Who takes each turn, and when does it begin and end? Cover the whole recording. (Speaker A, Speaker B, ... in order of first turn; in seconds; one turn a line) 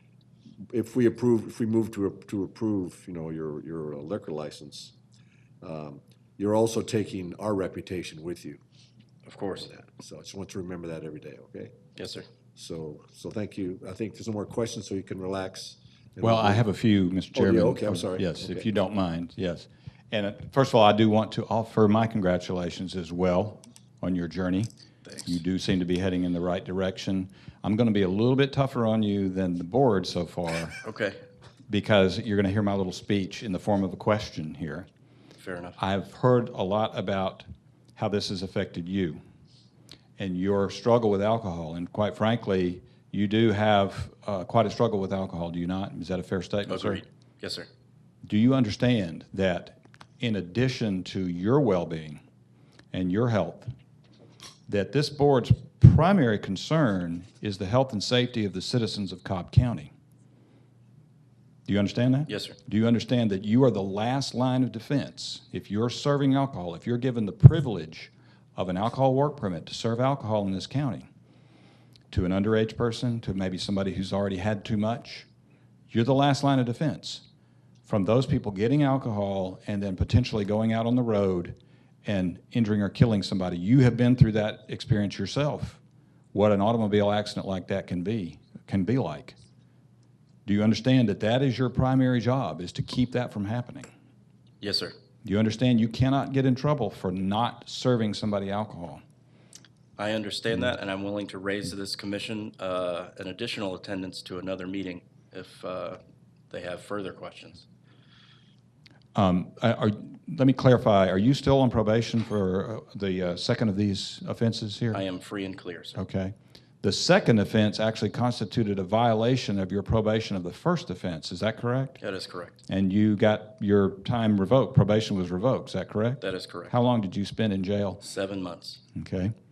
Speaker A: 0.7-5.0
Speaker A: 5.6-8.6
Speaker B: 9.3-9.7
Speaker A: 9.6-11.8
Speaker B: 12.0-12.3
Speaker A: 12.6-16.7
Speaker C: 16.2-24.7
Speaker A: 17.3-18.7
Speaker B: 25.1-25.4
Speaker C: 25.3-30.8
Speaker B: 30.8-31.2
Speaker C: 31.7-34.9
Speaker B: 35.4-35.8
Speaker C: 35.8-37.5
Speaker C: 38.0-39.2
Speaker C: 40.2-47.0
Speaker B: 46.7-47.7
Speaker C: 48.3-52.2
Speaker C: 52.9-53.7
Speaker C: 54.7-59.9
Speaker C: 61.7-71.1
Speaker B: 62.3-62.6
Speaker C: 72.1-75.3
Speaker C: 75.9-77.2
Speaker C: 77.8-85.8
Speaker C: 86.3-89.4
Speaker C: 90.5-93.9
Speaker B: 94.6-95.0
Speaker C: 95.2-99.0
Speaker B: 100.0-106.0
Speaker B: 106.5-107.7
Speaker C: 109.2-115.0
Speaker B: 114.9-116.0
Speaker C: 116.0-122.0
Speaker B: 122.0-122.6
Speaker C: 122.7-128.0
Speaker B: 126.2-126.7
Speaker B: 128.0-128.8
Speaker C: 128.9-129.3